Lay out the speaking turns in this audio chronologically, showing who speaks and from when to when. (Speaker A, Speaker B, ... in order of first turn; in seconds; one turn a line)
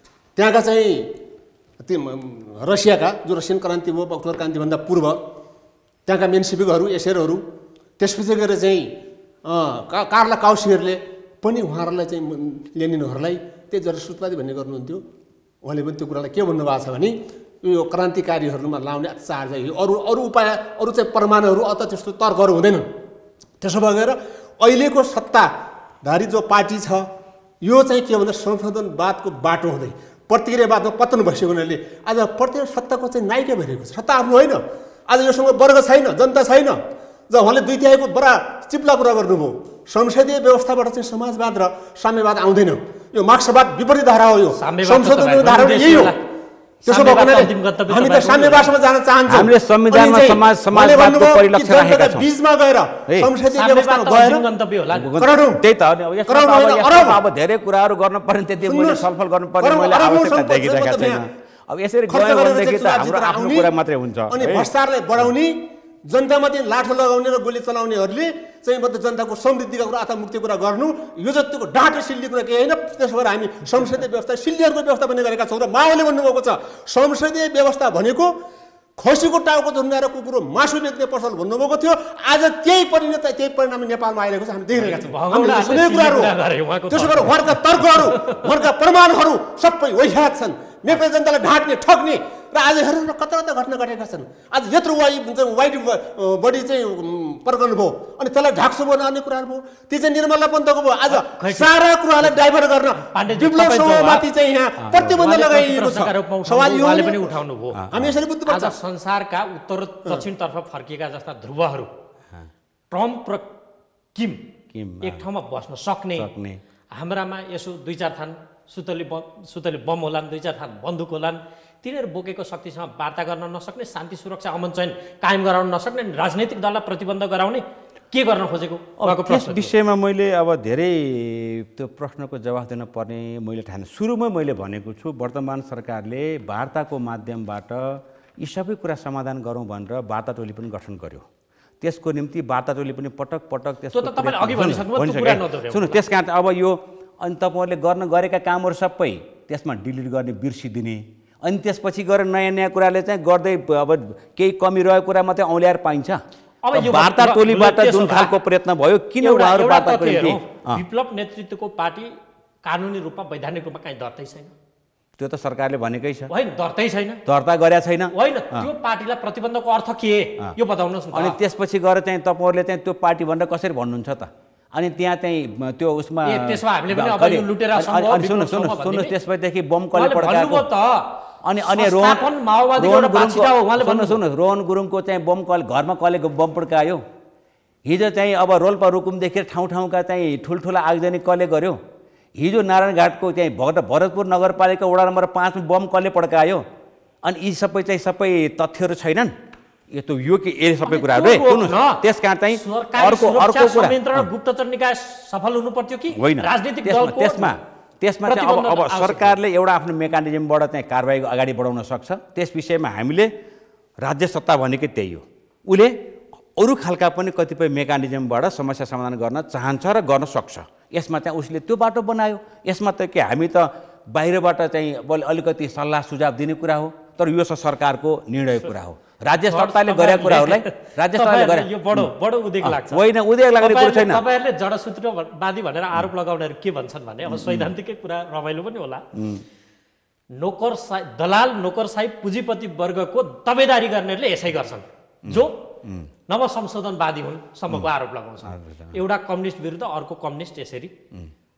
Speaker A: 0.3-1.1
Speaker A: 1.8-5.2
Speaker A: 6.0-7.4
Speaker A: 8.0-8.9
Speaker A: 9.4-15.0
Speaker A: 15.6-22.8
Speaker A: 23.6-25.5
Speaker A: 26.0-27.1
Speaker A: 27.6-36.8
Speaker A: 37.3-46.1
Speaker B: 44.6-46.2
Speaker A: 46.8-54.4
Speaker B: 46.9-48.7
Speaker C: 49.3-52.2
Speaker B: 53.5-55.1
Speaker C: 54.9-64.7
Speaker A: 55.2-55.6
Speaker A: 56.3-57.2
Speaker A: 58.6-59.0
Speaker A: 59.6-61.2
Speaker A: 62.1-63.7
Speaker A: 64.3-78.3
Speaker A: 79.0-86.3
Speaker B: 84.8-88.5
Speaker A: 86.9-107.3
Speaker B: 101.1-101.7
Speaker B: 103.1-104.2
Speaker B: 104.9-107.8
Speaker C: 107.8-108.2
Speaker A: 107.9-108.8
Speaker B: 108.5-111.9
Speaker B: 112.9-113.5
Speaker B: 114.1-114.4
Speaker C: 114.7-115.2
Speaker B: 115.0-116.3
Speaker C: 116.2-116.6
Speaker B: 116.9-129.7
Speaker C: 129.0-141.2
Speaker C: 141.8-156.2
Speaker B: 143.9-146.0
Speaker B: 156.6-158.3
Speaker C: 156.7-160.8
Speaker B: 159.2-164.5
Speaker C: 165.2-166.3
Speaker B: 166.3-167.2
Speaker C: 167.2-168.7
Speaker B: 168.1-171.3
Speaker C: 171.1-180.7
Speaker B: 176.2-179.1
Speaker B: 179.9-181.1
Speaker C: 181.4-182.2
Speaker B: 181.6-184.2
Speaker C: 182.8-187.0
Speaker C: 187.8-191.8
Speaker C: 192.4-196.6
Speaker C: 197.2-199.3
Speaker C: 199.9-204.3
Speaker B: 200.8-207.5
Speaker C: 206.1-213.3
Speaker B: 208.2-209.3
Speaker C: 214.0-215.9
Speaker C: 216.6-232.1
Speaker B: 229.5-233.0
Speaker C: 232.6-234.2
Speaker B: 233.6-239.1
Speaker C: 237.2-237.7
Speaker C: 239.1-239.4
Speaker B: 240.3-245.6
Speaker C: 245.2-246.1
Speaker B: 246.3-250.9
Speaker C: 248.4-248.9